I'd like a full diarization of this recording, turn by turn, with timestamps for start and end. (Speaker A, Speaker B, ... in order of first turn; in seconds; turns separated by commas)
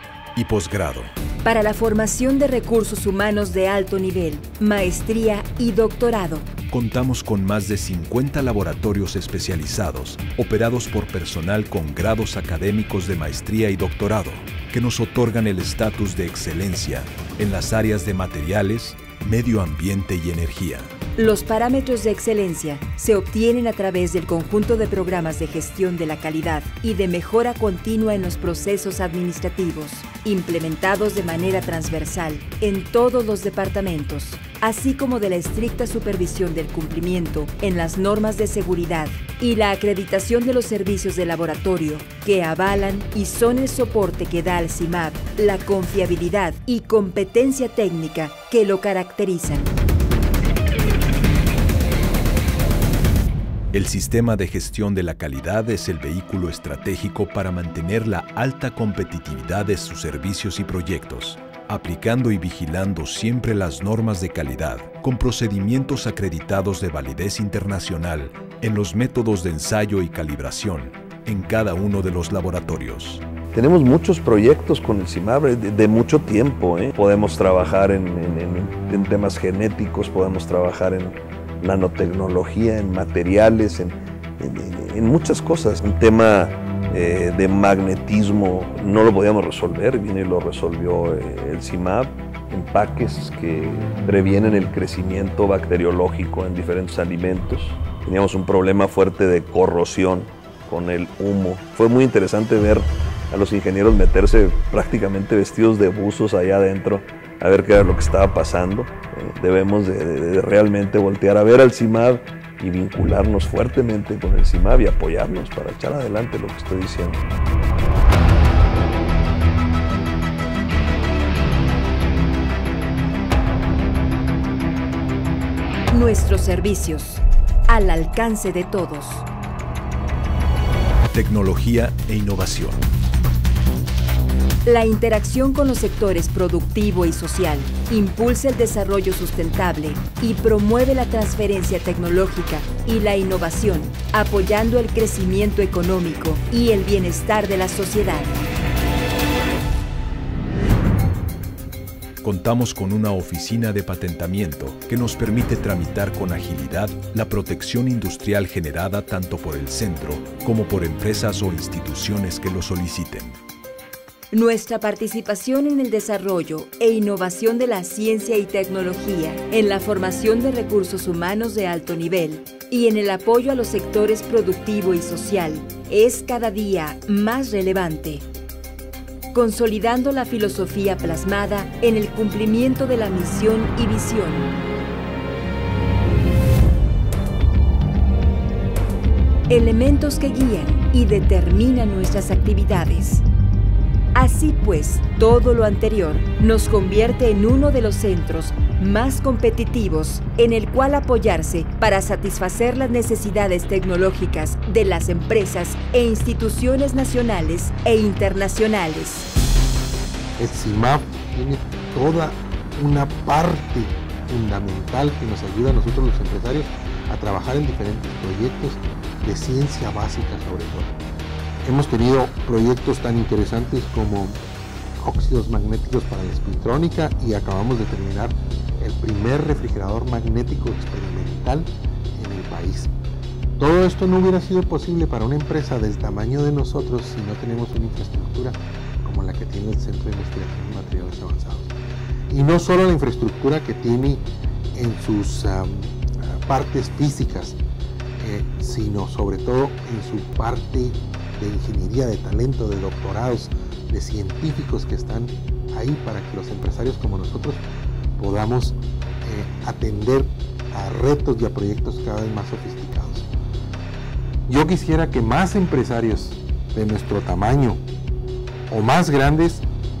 Speaker A: 0.3-1.1, Speaker B: 1.4-6.5, Speaker A: 6.7-20.9, Speaker B: 21.2-49.7, Speaker A: 53.7-73.2, Speaker C: 73.5-117.2, Speaker B: 125.9-129.2, Speaker A: 131.1-132.8, Speaker B: 134.7-148.4, Speaker A: 152.2-163.4, Speaker B: 164.3-178.2, Speaker B: 179.3-184.5, Speaker B: 189.5-193.2, Speaker B: 194.1-209.3, Speaker D: 210.4-220.9, Speaker D: 221.6-224.4, Speaker D: 225.0-232.9, Speaker D: 233.6-241.7, Speaker D: 242.3-247.6, Speaker D: 248.2-257.6, Speaker D: 258.2-263.3, Speaker D: 264.5-267.8, Speaker D: 268.7-269.6